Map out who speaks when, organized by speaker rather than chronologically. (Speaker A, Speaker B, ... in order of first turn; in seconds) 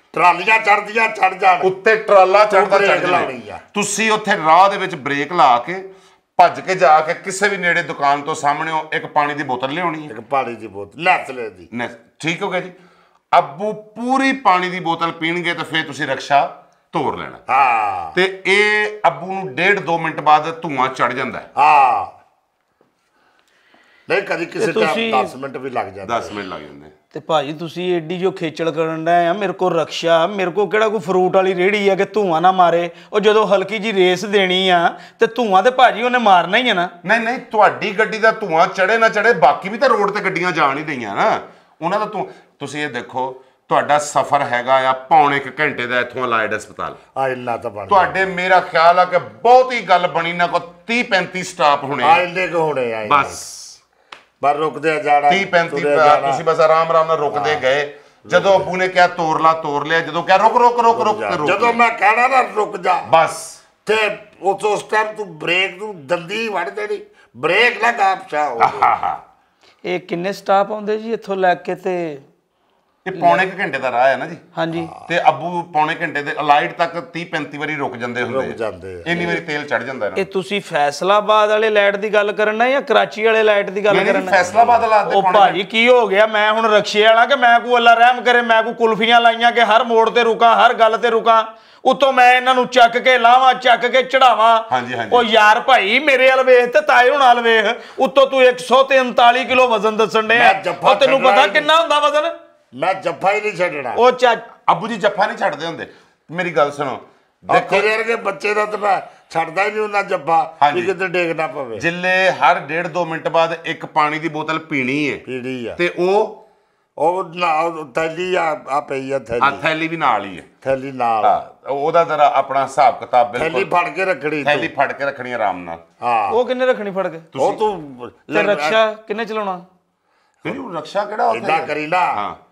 Speaker A: 0.1-1.7, 2.5-3.6, 10.1-11.7, 17.5-18.1, 21.5-22.1, 24.1-26.3, 47.1-48.2, 52.0-53.4, 54.4-56.4, 57.3-57.6, 58.3-58.7, 60.9-63.1, 63.8-69.0, 74.7-75.0, 78.2-79.4, 84.3-84.8, 100.3-101.7, 102.7-104.0, 107.5-111.8, 115.2-115.8, 117.0-119.6, 120.6-121.4, 123.3-124.7, 126.0-126.4, 127.3-128.8, 131.3-132.2
Speaker B: 1.6-5.8, 6.4-10.1, 11.7-12.8, 13.3-17.4, 18.1-21.4, 26.0-26.9, 37.0-47.0, 47.9-52.2, 53.0-53.8, 55.3-61.8, 63.0-63.6, 68.6-69.2, 73.0-74.4, 75.0-80.2, 83.9-85.6, 94.7-95.3, 104.7-107.9, 110.6-110.9, 111.8-115.2, 115.8-116.4, 119.4-120.5, 121.2-123.7, 124.4-125.8, 127.3-127.6, 130.4-132.4
Speaker C: 24.6-25.3, 27.1-36.9, 69.8-72.2, 73.1-73.5, 74.5-74.9, 80.1-84.4, 85.0-102.3, 103.9-104.5, 126.3-127.3, 128.3-129.6